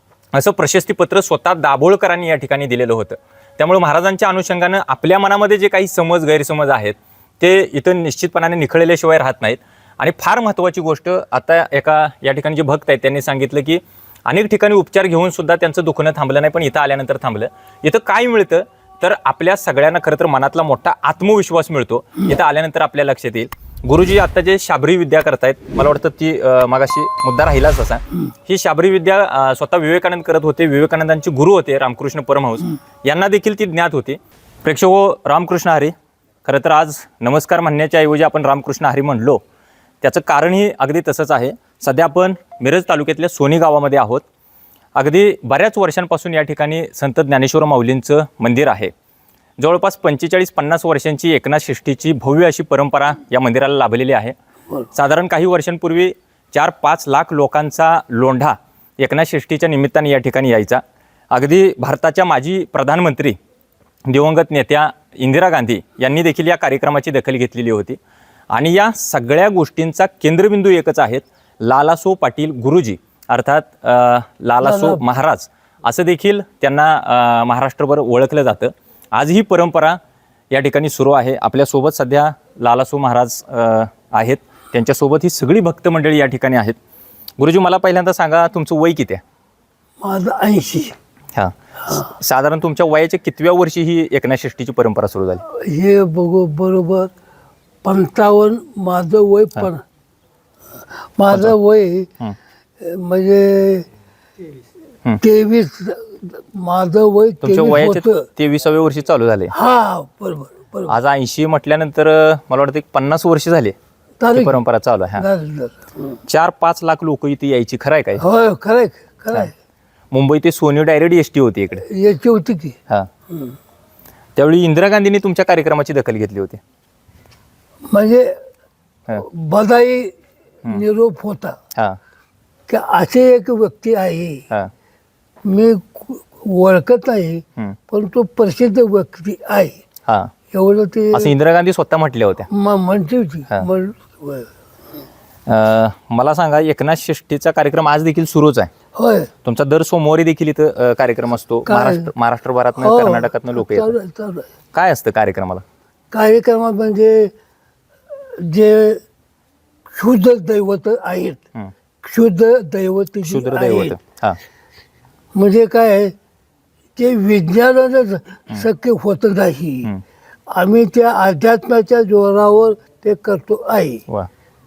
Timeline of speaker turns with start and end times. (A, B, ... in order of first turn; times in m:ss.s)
0:00.3-0:35.9 A
0:36.4-0:39.4 A
0:40.0-0:44.2 A
0:45.0-0:48.9 A
0:49.6-0:54.4 A
0:54.9-1:03.4 A
1:04.1-1:08.0 A
1:08.5-1:20.0 A
1:14.6-1:15.0 B
1:20.5-1:26.8 A
1:27.4-1:29.2 A
1:30.0-1:31.0 B
1:31.4-1:35.4 A
1:35.5-1:37.1 B
1:37.8-1:39.8 B
1:41.2-1:42.1 B
1:41.3-1:41.6 A
1:42.8-1:43.9 B
1:45.2-1:48.2 B
1:47.4-1:49.5 A
1:49.5-1:50.9 B
1:50.9-1:53.8 A
1:54.2-1:54.6 B
1:54.3-1:55.2 A
1:55.2-1:56.2 B
1:56.3-1:58.2 A
1:58.2-1:59.5 B
2:00.1-2:01.8 A
2:01.9-2:02.8 B
2:04.4-2:06.6 A
2:07.9-2:08.4 B
2:09.2-2:11.6 B
2:12.7-2:14.5 B
2:15.4-2:19.8 B
2:20.1-2:20.3 A
2:20.5-2:21.3 B
2:21.1-2:22.5 A
2:22.5-2:24.5 B
2:25.5-2:28.7 A
2:29.0-2:29.3 B
2:29.4-2:34.0 A
2:31.7-2:32.1 B
2:32.8-2:34.5 B
2:34.7-2:35.6 A
2:36.1-2:37.3 B
2:38.4-2:39.0 B
2:40.0-2:41.4 B
2:42.0-2:44.0 B
2:43.3-2:44.4 A
2:45.3-2:46.1 B
2:47.0-2:49.9 B
2:50.5-2:54.0 B